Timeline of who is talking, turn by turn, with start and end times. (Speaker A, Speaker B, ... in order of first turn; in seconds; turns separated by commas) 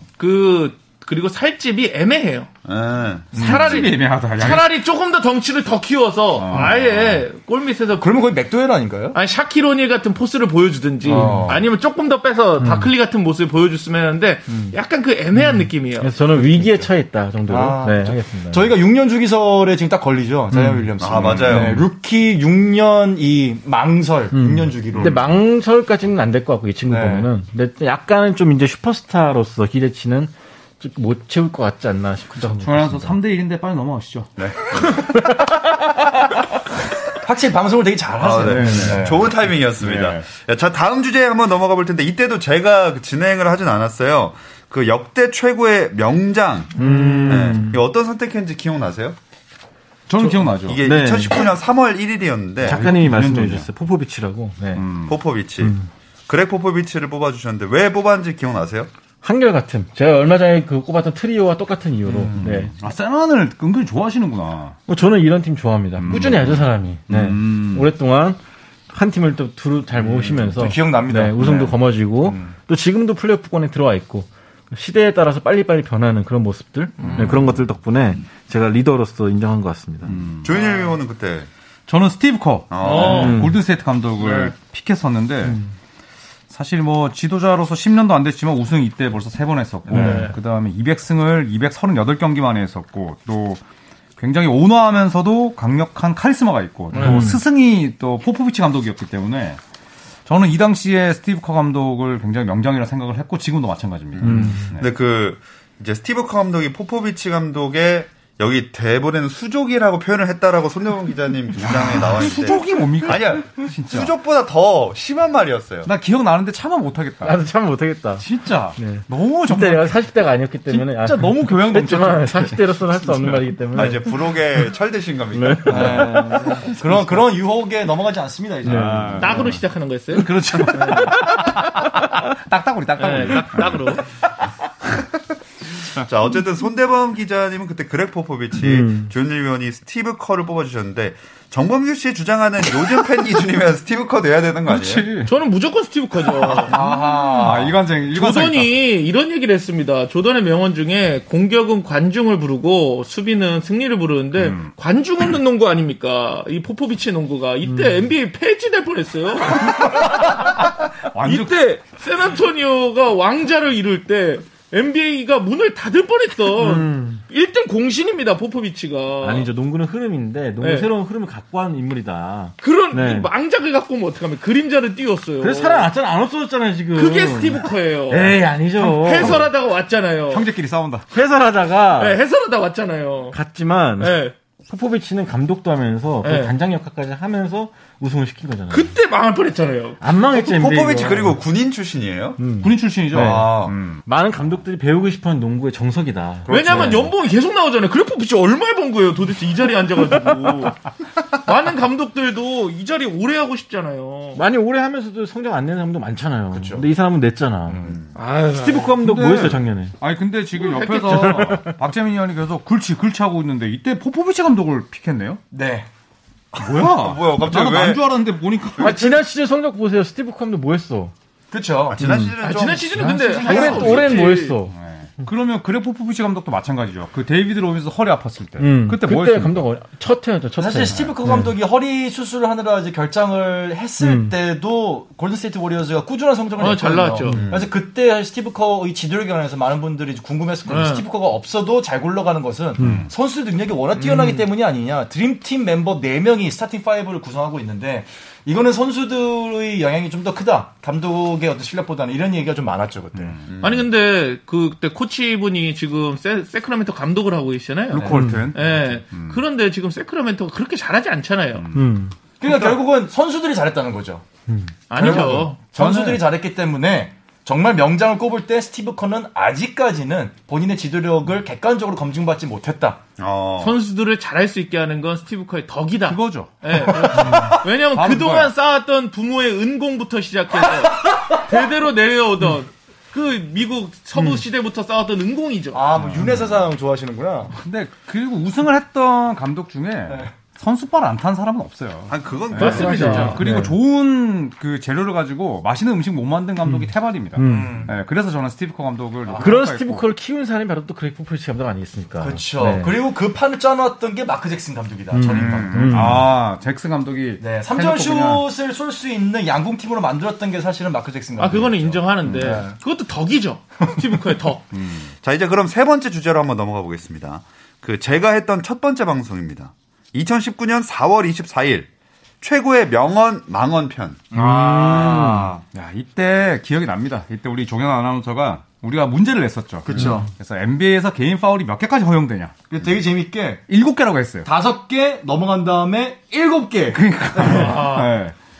Speaker A: 0.2-2.5, Speaker B: 2.6-3.9, Speaker C: 3.3-3.7, Speaker D: 3.4-4.7, Speaker A: 3.4-8.1, Speaker D: 6.3-6.8, Speaker C: 8.0-9.2, Speaker A: 9.1-16.1, Speaker C: 11.0-11.6, Speaker E: 11.1-11.5, Speaker E: 12.6-12.9, Speaker E: 15.3-18.7, Speaker C: 17.5-25.2, Speaker E: 20.5-20.9, Speaker B: 21.0-21.8, Speaker E: 21.5-21.8, Speaker E: 24.3-33.1, Speaker C: 26.9-27.3, Speaker D: 32.4-34.3, Speaker B: 34.4-35.1, Speaker C: 37.2-39.2, Speaker B: 38.2-49.2, Speaker D: 38.4-39.1, Speaker D: 39.8-40.3, Speaker E: 46.8-47.8, Speaker D: 50.1-50.8, Speaker B: 50.6-52.8, Speaker E: 50.8-51.4, Speaker D: 52.6-53.7, Speaker E: 52.6-54.9, Speaker D: 54.7-55.1, Speaker B: 55.0-55.8, Speaker E: 55.6-55.9, Speaker B: 56.3-58.9, Speaker E: 59.2-62.7, Speaker C: 62.1-62.4, Speaker D: 62.3-64.8, Speaker E: 64.9-68.4, Speaker D: 66.0-67.9, Speaker E: 68.9-80.2, Speaker C: 70.5-72.5, Speaker D: 77.0-77.6, Speaker D: 80.1-80.5, Speaker B: 80.4-81.5, Speaker D: 81.9-85.6, Speaker B: 82.7-83.3, Speaker A: 82.8-83.4, Speaker E: 83.0-83.6, Speaker A: 84.2-84.5, Speaker D: 86.5-93.6, Speaker E: 89.9-90.3, Speaker A: 89.9-90.3, Speaker D: 94.2-99.6, Speaker A: 96.9-97.3, Speaker E: 97.0-97.4, Speaker D: 100.2-104.9, Speaker B: 104.1-115.9, Speaker E: 104.2-104.6, Speaker D: 111.6-114.1, Speaker D: 115.8-117.4, Speaker E: 117.2-124.1, Speaker D: 118.2-120.0, Speaker D: 120.7-123.5, Speaker B: 123.7-126.4, Speaker E: 125.3-126.7, Speaker C: 125.7-129.4, Speaker D: 128.6-129.6, Speaker E: 128.7-129.6, Speaker A: 129.2-131.2, Speaker D: 130.1-134.0, Speaker E: 130.7-131.6, Speaker A: 133.0-134.0, Speaker B: 136.0-145.1, Speaker E: 138.6-139.1, Speaker D: 144.7-145.3, Speaker A: 145.3-146.8, Speaker D: 146.7-148.7, Speaker C: 146.7-147.8, Speaker A: 148.1-160.7, Speaker D: 154.4-154.7, Speaker D: 160.3-161.8, Speaker A: 161.2-169.5, Speaker E: 166.6-167.2, Speaker E: 169.2-173.3, Speaker A: 170.6-170.9, Speaker A: 172.6-175.9, Speaker E: 175.4-179.4, Speaker A: 176.9-180.4, Speaker D: 178.1-179.5, Speaker D: 180.3-181.1, Speaker E: 181.1-182.2, Speaker A: 182.0-183.3, Speaker E: 183.3-188.9, Speaker A: 184.0-184.3, Speaker A: 186.2-186.5, Speaker A: 188.7-190.0, Speaker E: 190.0-191.4, Speaker B: 190.3-192.4, Speaker E: 192.4-197.1, Speaker D: 192.6-194.0, Speaker C: 193.1-193.7, Speaker D: 196.5-197.1, Speaker A: 196.5-200.8, Speaker C: 196.5-196.8, Speaker A: 201.4-204.4, Speaker E: 204.3-207.8, Speaker C: 206.5-206.9, Speaker C: 207.7-208.0, Speaker A: 208.1-208.9, Speaker E: 208.5-209.9, Speaker D: 209.0-215.4, Speaker A: 210.6-211.4, Speaker E: 211.1-211.8, Speaker C: 215.5-215.9, Speaker B: 216.5-218.0, Speaker D: 216.6-219.2, Speaker E: 218.8-221.1, Speaker C: 221.5-222.0, Speaker B: 221.9-224.2, Speaker E: 222.0-224.8, Speaker A: 222.4-224.6, Speaker D: 223.6-224.1, Speaker D: 224.7-229.6, Speaker E: 228.6-231.5, Speaker C: 230.6-253.3, Speaker D: 230.9-231.2, Speaker E: 234.0-234.3, Speaker A: 236.6-237.4, Speaker E: 237.2-237.5, Speaker B: 237.4-237.7, Speaker A: 240.7-241.1, Speaker E: 242.8-243.1, Speaker D: 242.8-243.1, Speaker A: 243.9-244.4, Speaker D: 253.1-253.4, Speaker B: 253.5-253.8, Speaker A: 253.6-261.7, Speaker D: 257.9-259.4, Speaker E: 258.1-258.5, Speaker D: 261.6-261.9, Speaker E: 261.7-262.1, Speaker C: 262.4-264.2, Speaker D: 262.4-262.8, Speaker A: 264.9-265.6, Speaker C: 264.9-273.0, Speaker D: 265.0-266.2, Speaker B: 273.2-273.8, Speaker A: 273.6-285.8, Speaker D: 276.1-278.5, Speaker C: 277.2-277.5, Speaker C: 285.7-287.6, Speaker D: 285.9-286.6, Speaker D: 287.6-300.1, Speaker B: 292.1-293.2, Speaker A: 292.5-293.4, Speaker E: 292.6-293.8, Speaker C: 292.8-293.2, Speaker E: 296.6-297.9, Speaker C: 297.4-298.0, Speaker C: 299.2-299.6, Speaker E: 299.4-302.9, Speaker C: 302.2-306.3, Speaker E: 305.1-306.3, Speaker D: 305.3-308.5, Speaker C: 307.4-312.7, Speaker A: 311.4-314.7, Speaker D: 314.7-315.1, Speaker B: 315.2-321.9, Speaker B: 322.4-324.2, Speaker E: 324.3-325.5, Speaker D: 324.3-332.5, Speaker C: 324.9-325.6, Speaker C: 329.9-330.3, Speaker C: 332.7-333.6, Speaker D: 333.7-334.5, Speaker C: 334.4-337.8, Speaker D: 336.9-338.3, Speaker A: 337.4-338.1